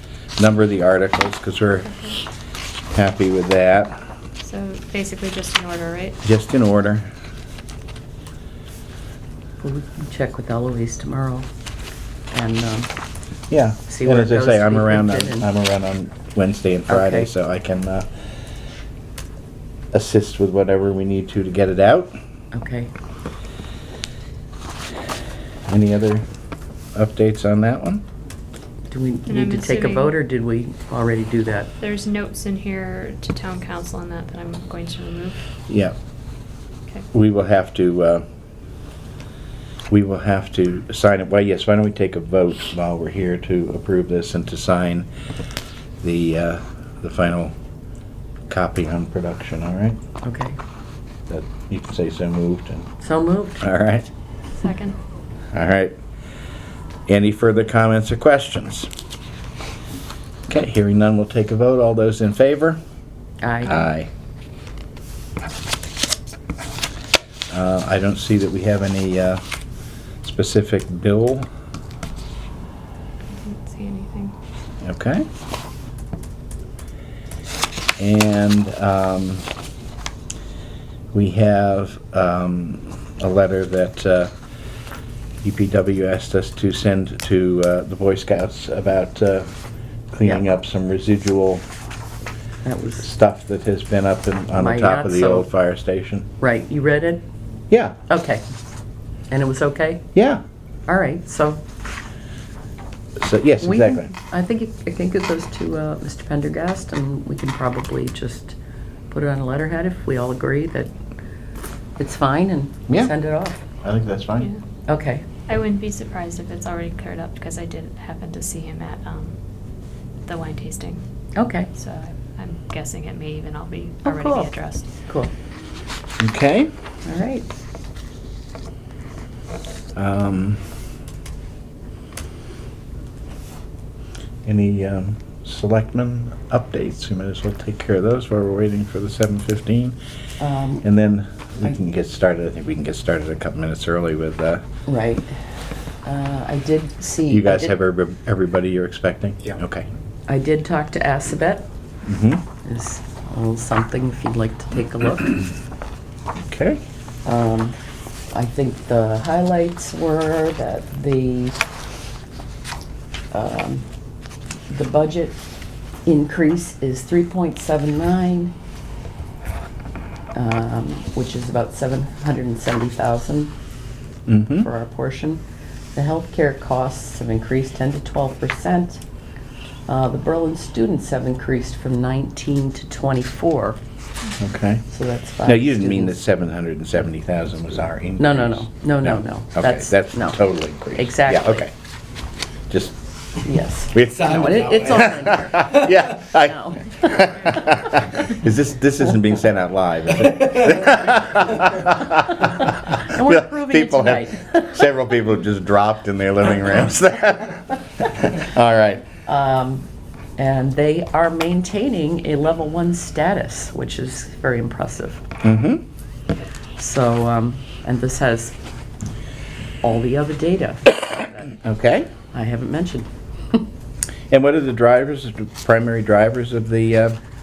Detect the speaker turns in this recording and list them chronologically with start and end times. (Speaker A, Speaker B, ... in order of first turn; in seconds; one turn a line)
Speaker A: 0.4-2.1
Speaker A: 2.9-4.0
Speaker B: 4.4-6.2
Speaker A: 6.2-7.1
Speaker C: 9.6-11.5
Speaker C: 12.3-12.9
Speaker A: 13.5-18.1
Speaker C: 13.9-15.5
Speaker C: 16.9-17.3
Speaker A: 19.9-22.2
Speaker C: 22.5-22.9
Speaker A: 25.7-26.2
Speaker A: 26.9-28.0
Speaker C: 28.9-31.7
Speaker B: 29.3-30.1
Speaker B: 31.8-35.4
Speaker A: 35.7-36.0
Speaker A: 37.1-38.2
Speaker A: 39.9-45.1
Speaker A: 46.0-47.5
Speaker A: 48.5-50.0
Speaker C: 50.2-50.6
Speaker A: 51.3-52.9
Speaker C: 53.0-53.6
Speaker A: 53.6-54.1
Speaker B: 54.6-55.0
Speaker A: 55.5-56.0
Speaker A: 57.1-58.9
Speaker A: 60.5-62.8
Speaker C: 63.4-63.7
Speaker A: 63.6-64.1
Speaker A: 67.5-69.4
Speaker A: 70.2-71.5
Speaker B: 73.3-74.3
Speaker A: 74.8-75.3
Speaker A: 78.0-79.5
Speaker A: 81.1-84.3
Speaker A: 85.4-89.5
Speaker A: 90.1-91.7
Speaker C: 92.7-93.1
Speaker A: 93.0-96.3
Speaker C: 94.5-95.5
Speaker C: 96.4-97.2
Speaker A: 97.7-98.0
Speaker C: 98.1-98.4
Speaker C: 99.3-100.1
Speaker A: 100.2-100.4
Speaker C: 100.9-101.6
Speaker A: 103.2-104.1
Speaker C: 103.6-108.6
Speaker C: 109.1-110.9
Speaker C: 112.0-113.7
Speaker A: 113.8-114.5
Speaker C: 114.9-115.3
Speaker B: 115.5-121.0
Speaker C: 121.3-121.7
Speaker B: 121.7-124.9
Speaker C: 124.0-125.3
Speaker A: 126.2-126.7
Speaker C: 127.0-127.5
Speaker A: 129.9-130.6
Speaker A: 134.4-140.0
Speaker C: 140.4-140.8
Speaker A: 140.8-144.7
Speaker C: 144.9-145.3
Speaker C: 146.0-147.8
Speaker A: 147.3-149.9
Speaker C: 150.3-151.7
Speaker A: 152.1-152.4
Speaker C: 152.6-155.5
Speaker A: 156.4-156.8
Speaker C: 157.2-157.8
Speaker C: 158.3-161.6
Speaker C: 163.3-163.8
Speaker C: 164.7-165.4
Speaker C: 166.1-168.5
Speaker C: 170.3-173.5
Speaker A: 174.3-174.7
Speaker C: 174.6-175.4
Speaker C: 175.9-179.0
Speaker C: 179.9-183.8
Speaker A: 184.4-184.9
Speaker C: 184.9-186.2
Speaker A: 185.4-191.7
Speaker C: 188.2-191.7
Speaker A: 192.7-193.0
Speaker C: 193.4-197.7
Speaker A: 193.9-209.1
Speaker C: 203.0-204.8
Speaker C: 209.2-215.2
Speaker A: 215.4-215.8
Speaker C: 216.8-218.6
Speaker C: 219.8-221.5
Speaker A: 221.6-222.1
Speaker C: 222.3-223.7
Speaker A: 224.3-227.2